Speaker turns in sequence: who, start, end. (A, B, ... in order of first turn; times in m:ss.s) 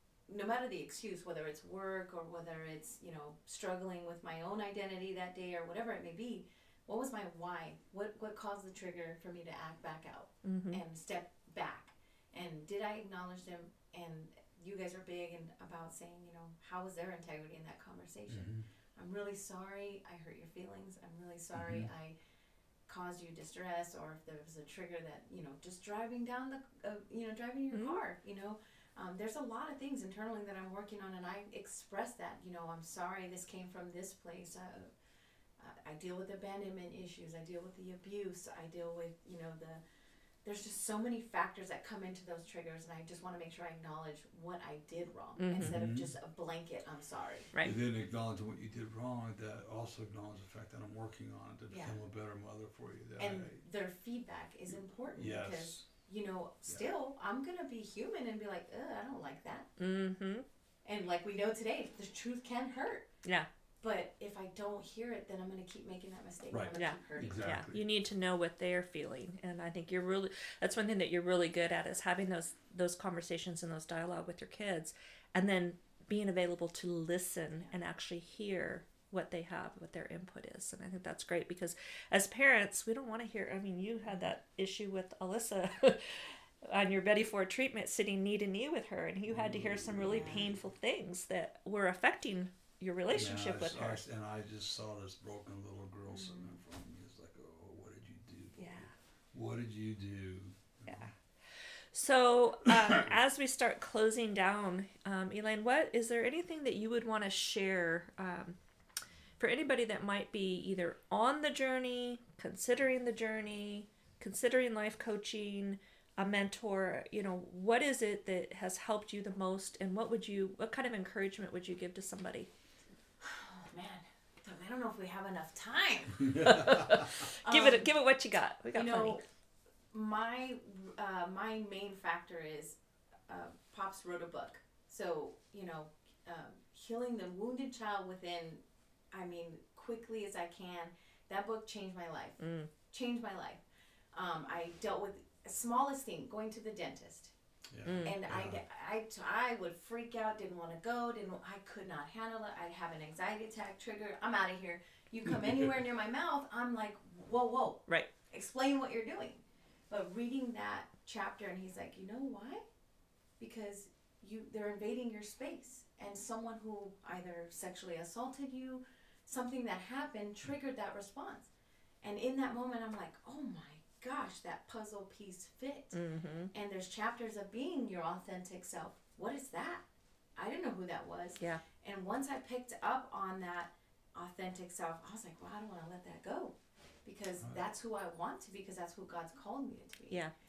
0:00.3-0:22.2 A
0:10.4-0:10.8 B
0:18.3-0:18.6 C
0:21.6-0:21.9 C
0:22.9-0:34.9 A
0:27.7-0:28.0 B
0:35.6-0:39.8 A
0:40.4-0:47.5 A
0:45.4-0:45.8 B
0:45.6-0:46.1 C
0:47.6-0:53.6 C
0:53.2-0:59.7 A
0:55.2-0:55.8 C
0:59.8-1:00.4 B
1:00.8-1:03.1 A
1:03.8-1:07.5 A
1:06.5-1:07.8 C
1:06.8-1:34.0 B
1:24.1-1:24.3 A
1:29.3-1:30.6 C
1:30.1-1:30.5 A
1:33.1-1:41.1 C
1:36.1-1:36.6 A
1:38.6-1:38.9 B
1:41.9-1:48.6 B
1:42.7-1:43.1 C
1:49.4-2:02.5 B
2:03.2-2:06.6 A
2:06.2-2:07.0 C
2:06.4-2:09.2 B
2:07.4-2:07.9 A
2:08.7-2:09.2 A
2:09.9-2:12.8 A
2:13.3-2:23.6 A
2:22.4-2:22.7 B
2:24.1-2:27.3 A
2:27.7-2:28.6 C
2:27.8-2:28.2 B
2:28.0-2:42.6 A
2:35.3-2:35.7 C
2:43.4-2:51.5 A
2:52.0-2:56.0 A
2:55.9-2:56.5 B
2:56.5-2:59.8 A
3:00.4-3:10.2 A